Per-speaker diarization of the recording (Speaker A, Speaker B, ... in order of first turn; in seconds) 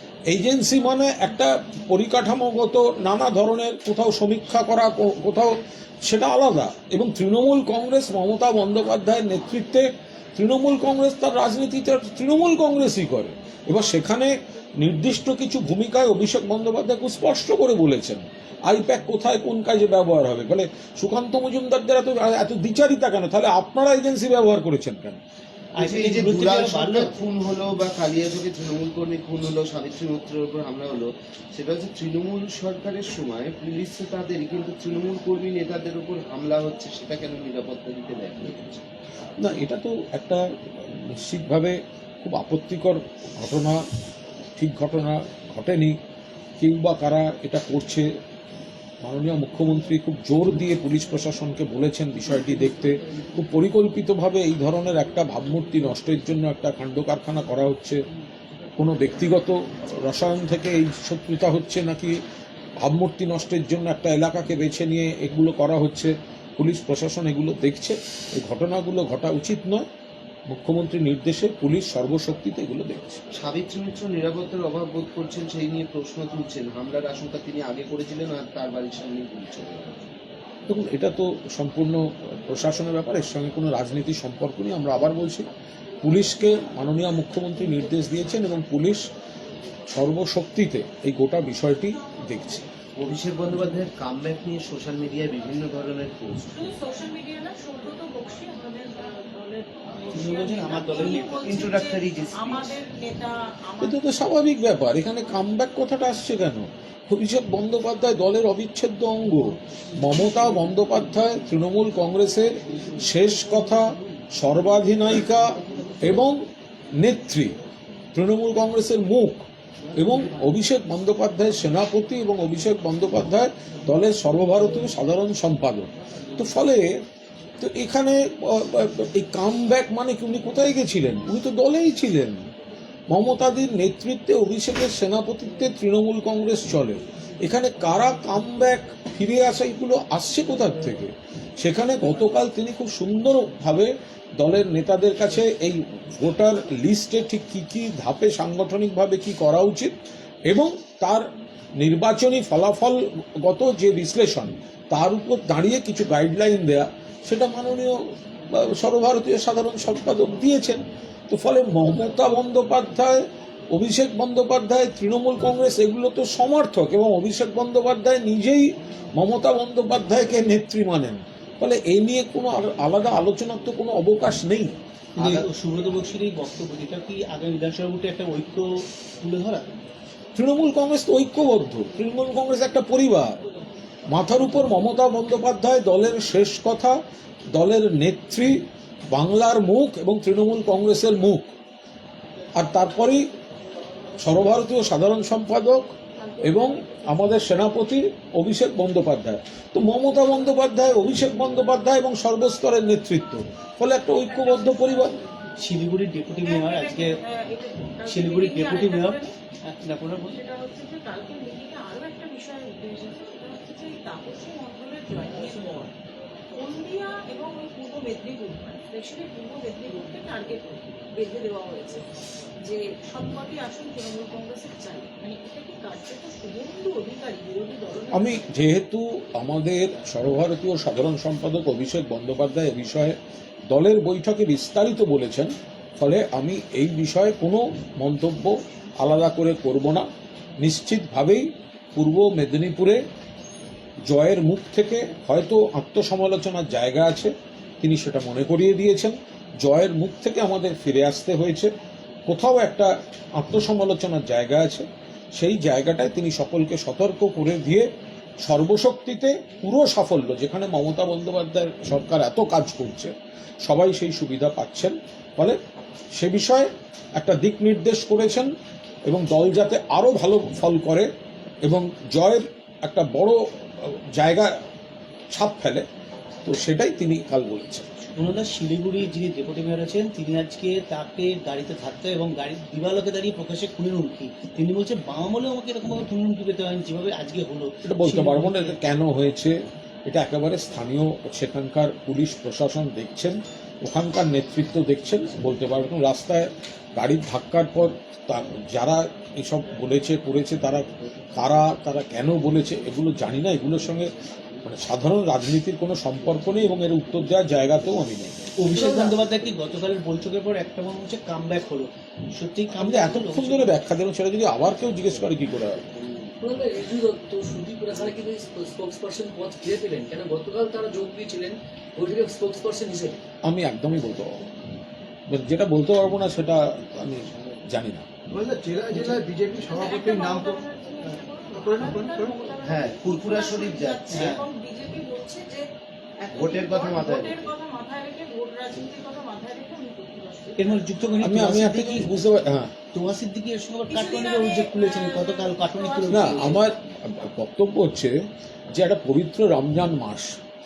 Speaker A: 0.3-25.2, 39.4-43.8, 44.6-46.0, 46.6-48.1, 49.0-58.0, 58.8-62.2, 62.8-69.9, 70.5-73.2, 80.7-85.5, 86.0-89.1, 89.9-92.7, 103.8-116.4, 117.0-117.6, 118.1-119.5, 120.0-126.9, 127.6-132.4, 133.1-149.9, 150.5-151.3, 151.8-175.5, 180.4-183.4, 184.1-187.0, 187.5-188.6, 189.1-191.5, 192.6-193.3, 194.2-205.2, 228.1-233.2, 233.7-240.1, 240.6-243.0, 244.1-251.7, 252.3-257.9, 258.4-263.1, 263.6-265.6, 266.1-268.5, 269.1-271.1, 271.6-274.5, 275.3-275.9, 276.4-277.9, 287.9-304.1, 304.6-308.6, 312.8-315.9, 323.4-324.5, 325.3-328.1, 341.2-342.7, 346.1-348.1, 348.7-350.3
Speaker B: 25.8-27.1, 100.1-101.6, 175.2-179.7, 205.6-207.1, 208.1-210.4, 278.2-288.8, 308.6-313.7, 334.1-334.4, 340.6-342.1, 342.9-346.6
Speaker C: 25.8-38.9, 73.3-80.1, 93.0-96.5, 101.4-102.8, 332.6-334.4, 336.3-337.5
Speaker D: 96.5-104.0, 196.2-196.8, 204.3-205.1, 206.4-209.3, 210.2-215.9, 216.6-222.1, 222.6-228.8, 329.6-341.0, 343.9-346.6
Speaker E: 316.4-323.2
Speaker F: 328.3-332.4